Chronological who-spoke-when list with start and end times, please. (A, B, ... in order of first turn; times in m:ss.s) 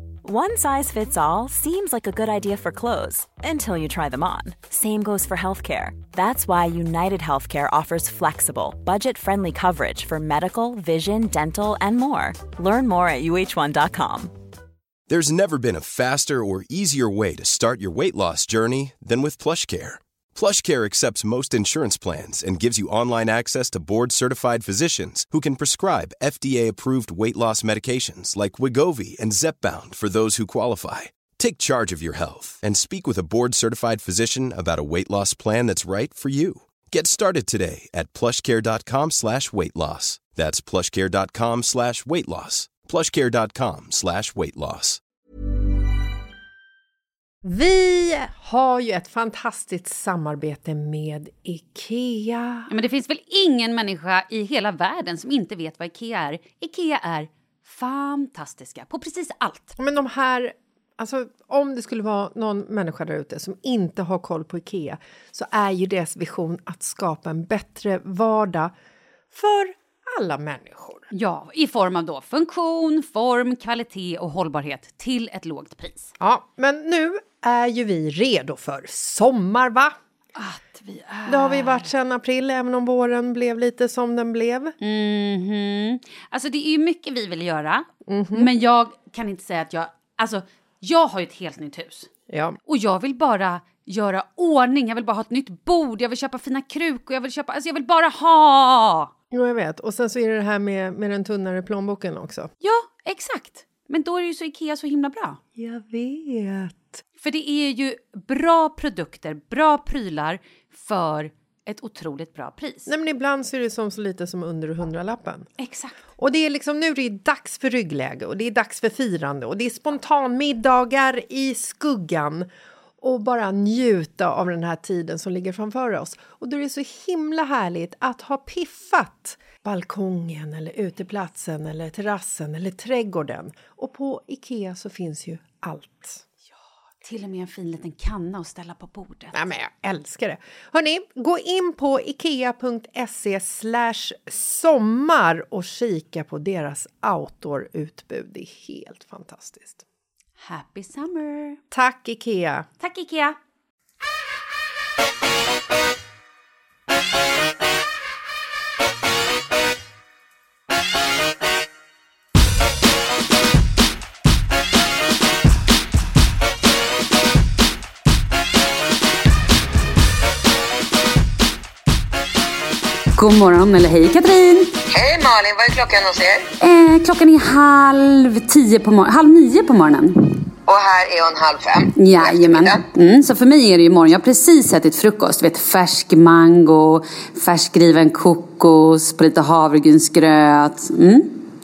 0:00.2-0:14.3 A
0:15.1-0:45.0 B
0:47.4-0:52.7 C
0:52.7-0:59.7 D
0:59.8-1:08.7 C
1:09.3-1:11.1 C
1:11.1-1:16.1 D
1:16.2-1:19.9 C
1:20.4-1:21.9 D
1:21.3-1:24.7 C
1:24.8-1:32.1 D
1:28.1-1:28.5 C
1:32.3-1:32.6 C
1:32.7-1:39.1 D
1:39.3-1:42.5 C
1:42.6-1:45.4 D
1:45.6-1:47.0 C
1:47.2-1:52.9 D
1:52.9-1:55.5 C
1:55.6-1:56.0 D
1:56.2-2:02.5 C
2:03.0-2:16.2 C
2:17.0-2:19.3 D
2:19.3-2:29.8 C
2:30.4-2:31.6 D
2:31.7-2:32.7 C
2:32.8-2:33.4 D
2:53.2-2:54.7 D
2:54.9-2:56.5 E
2:56.6-3:00.4 D
3:00.7-3:02.8 E
3:02.0-3:11.4 D